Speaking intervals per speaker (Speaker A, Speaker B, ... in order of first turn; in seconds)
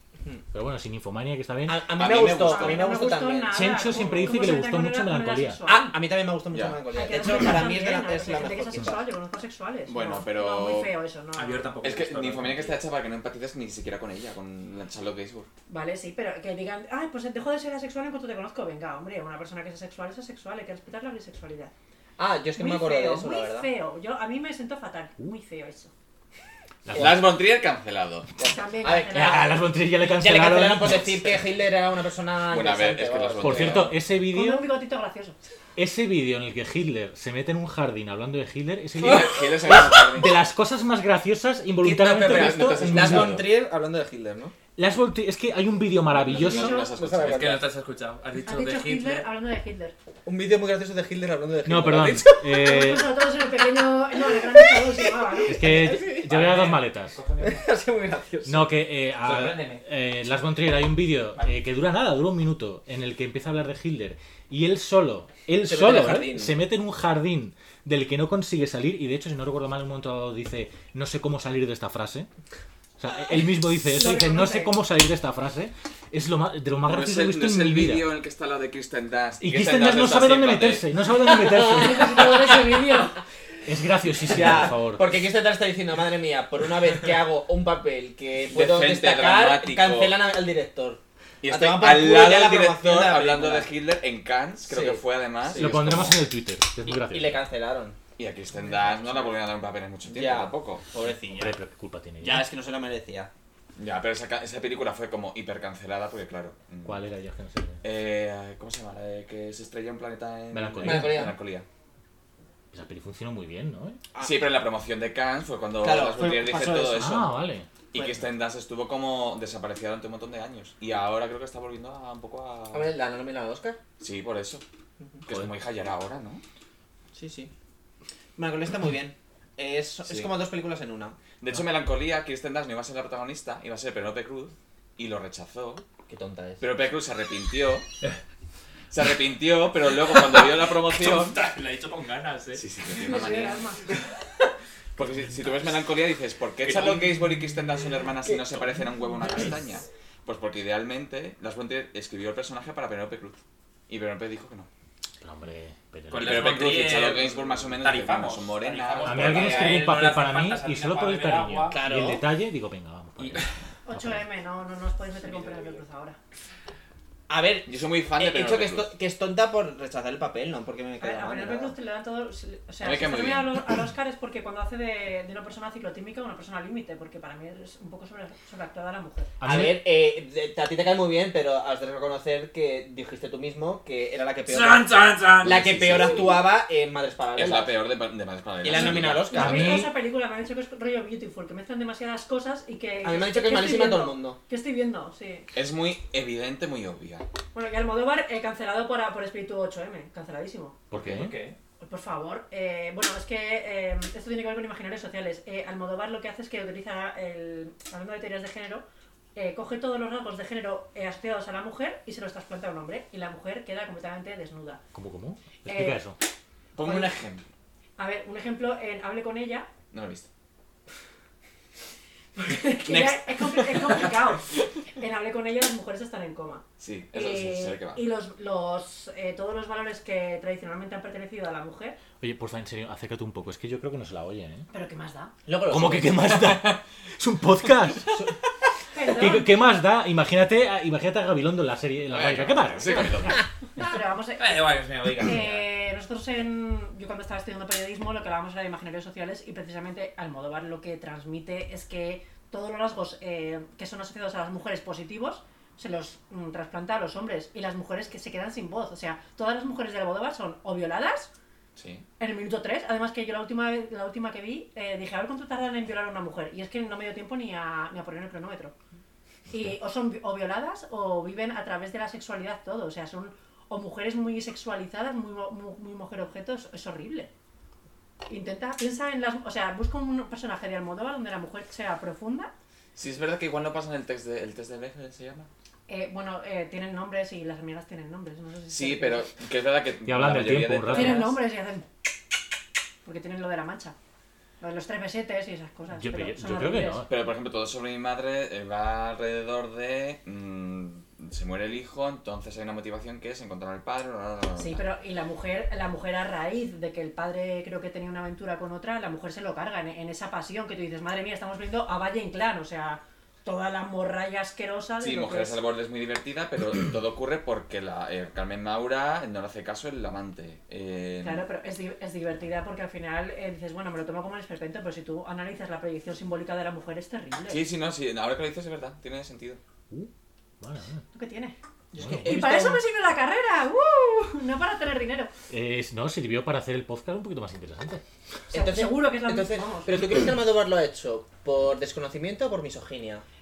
Speaker A: 0.5-1.9, 3.5-5.6, 26.9-27.2, 29.1-31.2, 33.4-34.7, 35.8-43.4, 44.8-46.8, 51.6-53.1, 55.5-57.2, 58.5-72.3, 73.0-78.1, 79.4-82.4, 83.7-85.0, 95.5-97.4, 101.3-102.5, 106.8-107.8, 110.5-111.3, 112.7-114.0, 117.0-117.7, 155.2-156.8, 159.0-164.2, 179.4-179.8, 185.7-186.2, 189.2-189.9, 200.9-201.4, 214.9-216.2, 232.2-234.7, 235.7-238.3, 239.1-243.4, 290.0-291.3, 295.9-297.1, 330.6-331.0, 332.0-332.4, 335.5-338.0
Speaker B: 1.6-4.2, 5.7-9.1, 22.2-23.7, 28.4-33.9, 41.8-44.5, 46.3-47.6, 50.2-52.4, 54.1-56.3, 57.4-58.7, 65.6-66.6, 81.2-82.6, 84.2-93.7, 94.7-95.8, 96.9-98.0, 100.1-101.5, 102.2-103.3, 110.8-111.3, 114.1-114.4, 115.8-117.1, 117.9-118.2, 122.7-123.8, 127.1-127.5, 128.3-131.2, 136.1-136.6, 159.2-159.7, 161.7-162.2, 167.3-171.7, 179.4-187.8, 188.6-189.8, 193.0-194.4, 235.4-236.4, 331.9-332.8, 338.5-343.2
Speaker C: 1.9-3.0, 6.5-6.8, 9.9-10.9, 11.8-15.5, 26.9-28.3, 32.5-34.0, 39.0-40.4, 42.2-43.5, 46.1-47.6, 76.8-80.9, 88.5-90.2, 91.4-96.3, 98.2-100.8, 103.8-107.0, 107.8-111.7, 114.2-117.4, 117.9-122.9, 124.0-124.6, 125.2-126.4, 131.4-135.8, 136.6-137.8, 138.9-141.4, 142.5-143.6, 145.0-154.7, 156.2-159.8, 167.7-168.9, 172.8-173.7, 187.3-189.4, 195.5-197.2, 216.8-217.4, 219.9-220.3, 222.9-224.1, 226.8-228.0, 242.1-243.4, 261.8-262.1, 282.9-285.5, 288.7-291.3, 297.1-304.8, 315.0-321.4, 327.5-329.6
Speaker D: 2.3-6.0, 6.9-11.8, 15.7-21.7, 22.6-25.9, 28.4-29.6, 34.2-35.4, 46.4-46.9, 48.4-49.9, 52.4-55.8, 73.8-74.8, 81.6-83.2, 143.0-143.8, 163.8-166.2, 171.0-179.3, 189.2-195.5, 197.5-200.8, 201.8-208.8, 209.3-214.8, 215.7-216.0, 216.8-217.1, 218.0-219.7, 222.4-232.0, 234.7-235.3, 238.9-239.5, 243.8-261.3, 262.2-268.7, 269.5-277.3, 278.3-282.5, 285.9-289.3, 290.9-291.9, 293.0-293.9, 294.6-297.0, 304.6-315.6, 321.2-327.6, 331.1-331.6, 332.2-335.3, 338.5-340.0
Speaker E: 11.3-12.8, 47.2-49.3, 56.2-57.7, 59.2-59.8, 140.0-142.6, 146.6-147.1, 156.1-161.8, 163.2-163.5, 165.3-165.6, 184.5-186.2, 200.9-201.6, 244.4-245.6